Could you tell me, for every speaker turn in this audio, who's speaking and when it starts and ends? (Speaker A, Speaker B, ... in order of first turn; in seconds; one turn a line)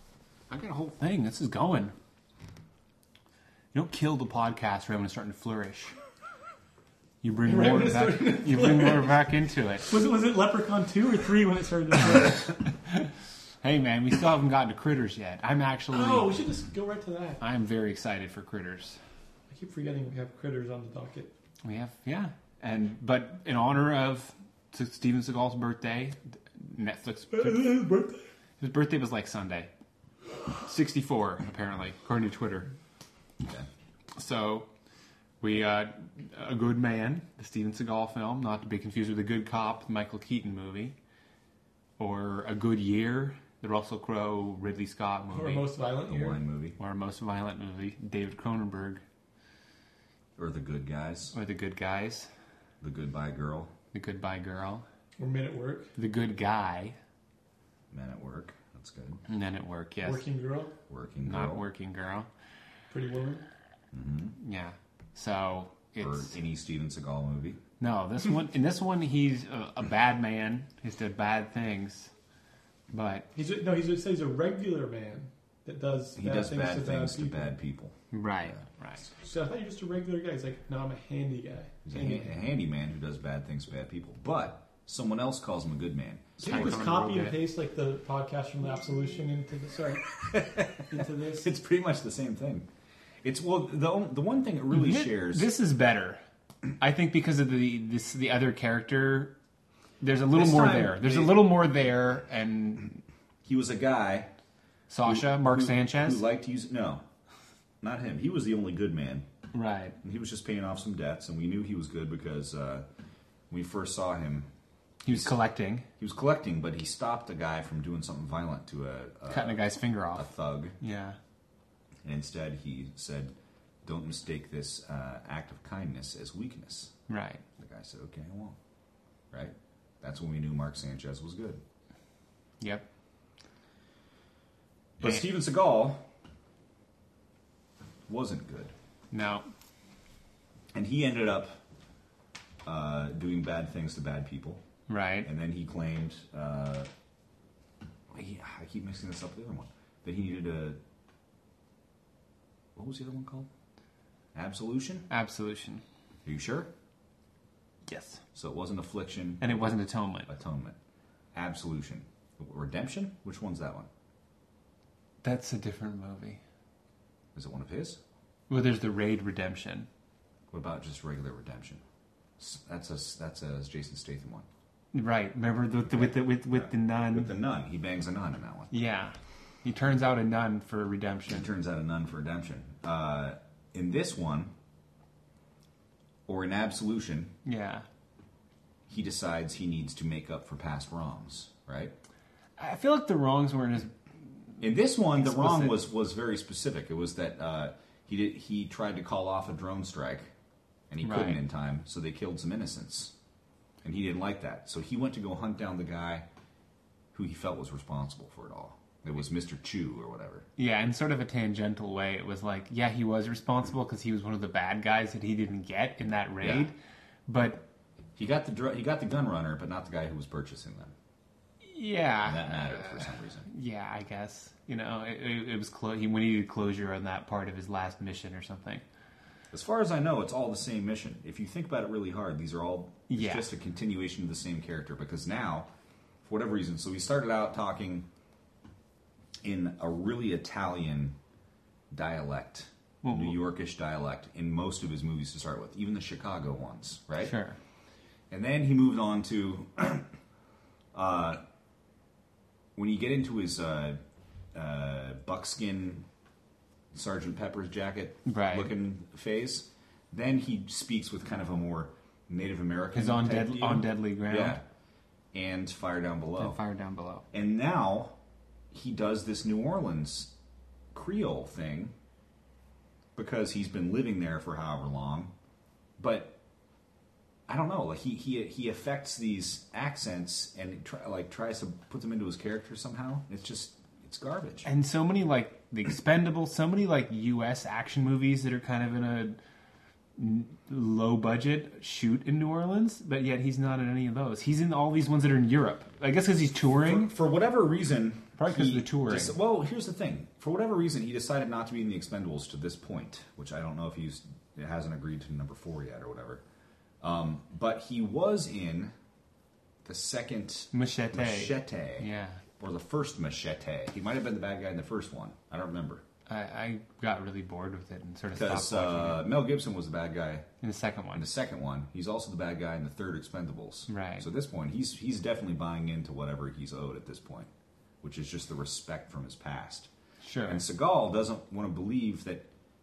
Speaker A: 0.5-1.9
Speaker A: 3.7-5.9
Speaker A: 7.2-9.9
Speaker B: 7.5-9.2
Speaker B: 9.9-12.6
Speaker A: 13.6-16.5
Speaker B: 15.9-17.4
Speaker A: 17.4-19.0
Speaker B: 19.5-21.3
Speaker A: 21.6-27.8
Speaker B: 27.3-28.2
Speaker A: 28.6-29.7
Speaker A: 30.6-32.7
Speaker C: 33.4-33.7
Speaker A: 34.1-34.7
Speaker A: 35.4-40.9
Speaker A: 42.0-45.7
Speaker B: 45.3-46.4
Speaker C: 46.0-46.8
Speaker A: 46.8-49.0
Speaker C: 50.4-51.4
Speaker A: 51.3-52.3
Speaker C: 52.8-53.7
Speaker A: 53.9-54.8
Speaker B: 55.2-55.9
Speaker A: 56.0-57.0
Speaker C: 57.9-59.2
Speaker A: 59.3-60.2
Speaker B: 60.0-60.7
Speaker C: 60.9-61.6
Speaker A: 61.2-62.3
Speaker B: 62.9-63.5
Speaker C: 63.9-64.3
Speaker A: 64.4-66.3
Speaker C: 66.0-67.6
Speaker A: 67.8-72.1
Speaker A: 72.9-73.3
Speaker B: 73.3-77.5
Speaker C: 76.2-78.6
Speaker A: 78.1-79.0
Speaker B: 79.2-82.3
Speaker C: 81.8-86.9
Speaker B: 86.4-90.0
Speaker A: 86.4-87.4
Speaker C: 90.2-92.7
Speaker B: 90.9-91.5
Speaker C: 93.2-95.5
Speaker A: 94.7-96.2
Speaker A: 96.8-99.3
Speaker A: 100.0-103.0
Speaker C: 100.3-101.5
Speaker C: 103.4-104.3
Speaker A: 104.9-106.2
Speaker C: 105.0-107.0
Speaker C: 107.8-109.2
Speaker A: 109.5-110.0
Speaker C: 110.0-112.8
Speaker C: 113.5-114.5
Speaker A: 115.0-115.8
Speaker C: 115.1-115.3
Speaker C: 116.0-120.8
Speaker A: 119.3-121.2
Speaker C: 122.0-126.9
Speaker A: 127.1-127.4
Speaker C: 127.6-128.6
Speaker C: 129.3-131.6
Speaker A: 132.6-132.8
Speaker C: 135.0-136.0
Speaker C: 138.1-138.7
Speaker A: 139.1-139.4
Speaker C: 140.7-141.5
Speaker C: 142.6-144.6
Speaker A: 144.9-145.3
Speaker C: 145.2-146.9
Speaker C: 148.1-150.8
Speaker C: 152.8-153.5
Speaker C: 154.3-155.1
Speaker A: 155.1-155.8
Speaker C: 156.2-156.7
Speaker A: 157.9-158.2
Speaker C: 158.3-160.8
Speaker A: 159.4-160.3
Speaker C: 161.3-163.9
Speaker A: 165.2-166.4
Speaker C: 167.3-168.0
Speaker A: 168.5-169.9
Speaker C: 170.5-171.8
Speaker C: 172.4-174.5
Speaker A: 174.9-177.3
Speaker C: 175.9-178.7
Speaker A: 178.7-181.5
Speaker C: 181.3-184.5
Speaker C: 186.3-187.3
Speaker A: 187.4-187.8
Speaker C: 188.9-191.9
Speaker A: 192.6-193.9
Speaker C: 194.6-200.3
Speaker A: 195.2-195.8
Speaker C: 200.9-203.1
Speaker A: 201.0-201.4
Speaker C: 203.8-206.2
Speaker C: 207.1-210.4
Speaker A: 210.6-216.7
Speaker C: 216.4-216.7
Speaker A: 217.3-217.6
Speaker C: 218.2-220.9
Speaker A: 221.6-228.8
Speaker C: 222.2-223.5
Speaker C: 229.5-235.7
Speaker A: 233.1-233.5
Speaker C: 236.2-238.1
Speaker C: 239.4-241.2
Speaker C: 241.9-247.4
Speaker A: 243.0-243.4
Speaker A: 247.2-247.6
Speaker C: 248.3-250.1
Speaker C: 250.9-251.4
Speaker C: 252.8-254.0
Speaker C: 254.5-256.1
Speaker C: 256.9-264.6
Speaker A: 258.2-258.7
Speaker A: 262.9-264.6
Speaker C: 265.3-266.6
Speaker A: 266.4-267.2
Speaker C: 267.3-268.1
Speaker C: 268.7-270.3
Speaker C: 270.9-271.9
Speaker C: 273.1-275.3
Speaker C: 276.0-276.4
Speaker C: 277.5-284.7
Speaker A: 284.6-289.4
Speaker A: 290.2-297.1
Speaker C: 296.7-306.4
Speaker A: 298.4-299.4
Speaker C: 307.0-308.9
Speaker C: 309.8-312.1
Speaker A: 310.7-312.4
Speaker C: 312.6-316.0
Speaker A: 316.3-319.3
Speaker C: 318.3-320.5
Speaker A: 320.6-321.3
Speaker C: 321.1-327.5
Speaker A: 323.9-324.3
Speaker C: 328.0-329.9
Speaker A: 330.2-330.6
Speaker C: 330.4-332.5